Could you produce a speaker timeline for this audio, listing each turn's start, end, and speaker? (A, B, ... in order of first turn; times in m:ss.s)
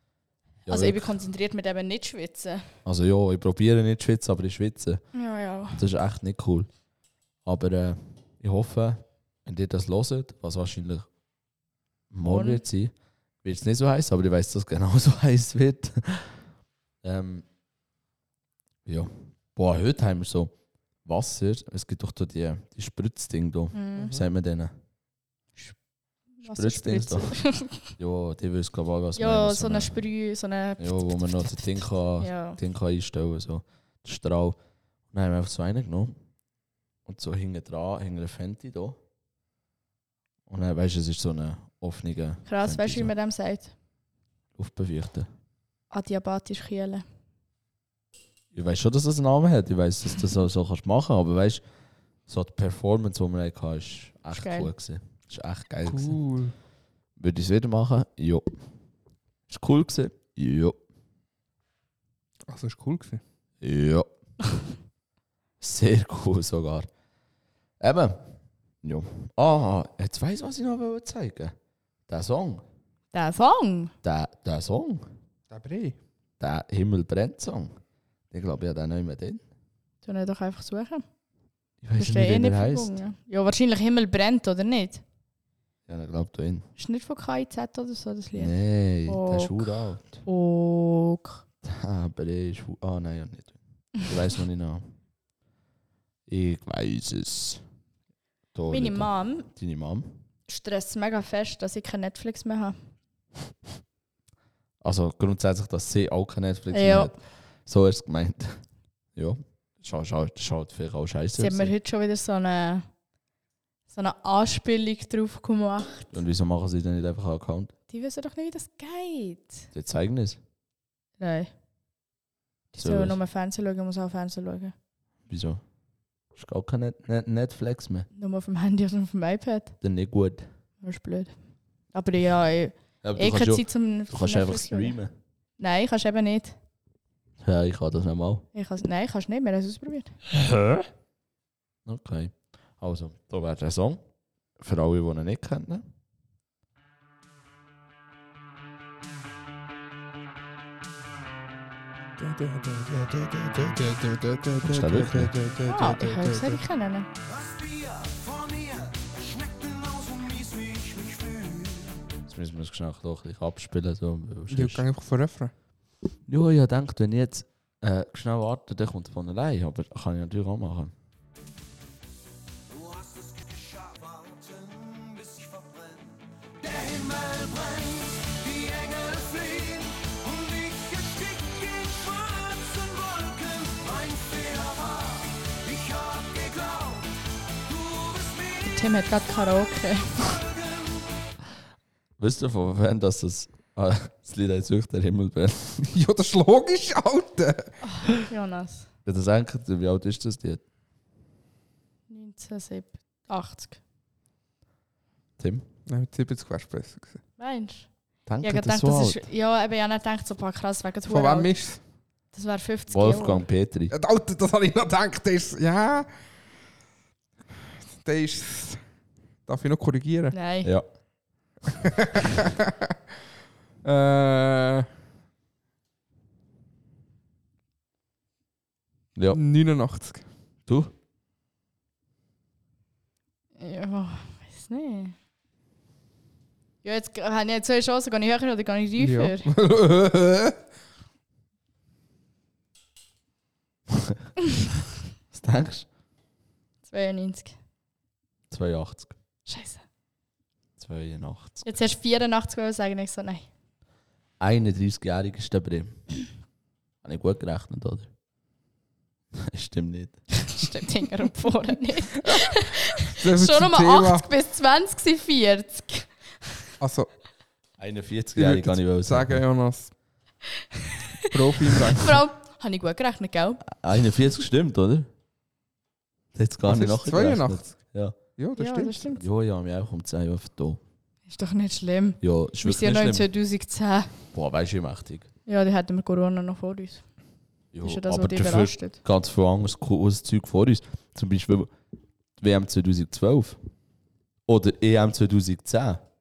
0:00.6-0:01.1 A
0:00.7-0:02.6 B
0:02.8-0:05.0 A
0:05.1-0:05.8 B
0:05.7-0:06.7 A
0:07.4-0:11.1 A
0:12.1-0:16.4 A
0:12.2-0:12.6 B
0:17.0-0:17.4 A
0:18.8-0:20.5 A
0:21.0-0:24.7 A
0:23.7-0:24.1 B
0:26.4-0:27.9 B
0:26.5-0:27.4 A
0:28.0-0:30.0 A
0:29.2-0:32.6 B
0:30.8-0:34.6 A
0:35.1-0:36.1 A
0:37.0-0:39.0 A
0:40.5-0:43.1 A
0:42.5-0:43.7 B
0:44.5-0:45.3 A
0:45.9-0:47.0 B
0:48.5-0:51.6 A
0:52.3-0:56.2 A
0:54.3-0:54.7 B
0:55.8-0:56.5 C
0:57.2-0:58.5 A
0:59.5-1:00.8 A
1:02.5-1:03.2 C
1:03.6-1:04.1 A
1:05.6-1:06.9 A
1:07.8-1:08.3 A
1:08.8-1:11.5 A
1:12.1-1:12.6 A
1:13.1-1:13.9 B
1:14.0-1:15.1 A
1:15.5-1:16.0 C
1:16.4-1:17.7 A
1:18.3-1:19.4 A
1:20.0-1:21.0 B
1:21.8-1:23.0 A
1:22.0-1:25.0 B
1:25.9-1:26.7 A
1:26.8-1:28.5 B
1:28.3-1:30.2 A
1:29.0-1:31.4 B
1:31.6-1:34.9 A
1:36.3-1:37.6 A
1:38.5-1:40.1 A
1:38.7-1:39.5 B
1:40.5-1:42.8 B
1:44.8-1:48.6 A
1:46.7-1:47.1 B
1:49.2-1:51.7 A
1:51.4-1:52.9 B
1:53.9-1:56.1 B
1:56.1-1:57.7 A
1:57.9-1:59.6 B
1:59.7-2:00.4 A
2:01.2-2:01.5 B
2:02.7-2:04.7 B
2:02.8-2:03.2 A
2:05.3-2:05.6 A
2:06.3-2:08.1 A
2:08.1-2:09.7 B
2:09.8-2:10.5 A
2:10.8-2:11.4 B
2:11.9-2:14.9 B
2:13.0-2:15.1 A
2:15.6-2:16.6 B
2:17.4-2:18.4 A
2:18.5-2:20.1 B
2:20.3-2:20.9 A
2:21.8-2:24.0 A
2:24.6-2:25.8 A
2:32.2-2:36.6 C
2:34.6-2:35.3 A
2:35.6-2:37.1 B
2:37.2-2:42.0 D
2:42.3-2:44.8 A
2:44.5-2:45.5 C
2:46.3-2:50.9 A
2:52.7-3:09.0 D
3:08.6-3:10.3 B
3:10.2-3:11.2 D
3:12.2-3:15.9 A
3:15.9-3:17.8 C
3:17.8-3:18.9 B
3:19.0-3:20.6 A
3:22.1-3:23.8 B
3:25.4-3:25.6 A
3:25.9-3:27.2 C
3:27.4-3:27.9 B
3:28.2-3:29.2 A
3:28.4-3:31.5 B
3:31.1-3:31.8 C
3:32.3-3:33.4 B
3:32.9-3:33.9 A
3:33.9-3:36.1 C
3:38.0-3:38.8 C
3:39.4-3:40.3 C
3:40.3-3:40.7 B
3:41.7-3:42.7 C
3:43.8-3:44.9 C
3:49.1-3:49.4 A
3:49.3-3:50.3 C
3:50.7-3:50.9 A
3:53.6-3:55.1 B
3:56.8-3:59.5 B
3:59.0-4:00.6 C
4:03.9-4:04.2 A
4:05.3-4:05.9 A
4:06.9-4:07.6 B
4:08.5-4:09.1 A
4:09.4-4:09.8 B
4:10.8-4:11.6 A
4:11.6-4:13.5 B
4:14.4-4:16.0 A
4:17.0-4:18.1 A
4:19.3-4:20.2 A
4:20.4-4:26.5 B
4:23.0-4:24.2 C
4:26.8-4:27.1 C
4:27.8-4:29.4 A
4:28.4-4:29.9 C
4:30.8-4:33.6 B
4:31.3-4:32.2 C
4:33.7-4:35.1 A
4:36.3-4:38.1 A
4:36.6-4:37.8 C
4:38.4-4:39.0 C
4:38.6-4:39.2 B
4:39.2-4:40.8 A
4:41.3-4:44.1 B
4:42.2-4:43.3 A
4:44.3-4:45.3 A
4:45.4-4:47.0 B
4:47.7-4:51.7 A
4:47.8-4:49.0 B
4:52.4-4:53.6 A
4:54.4-4:56.0 A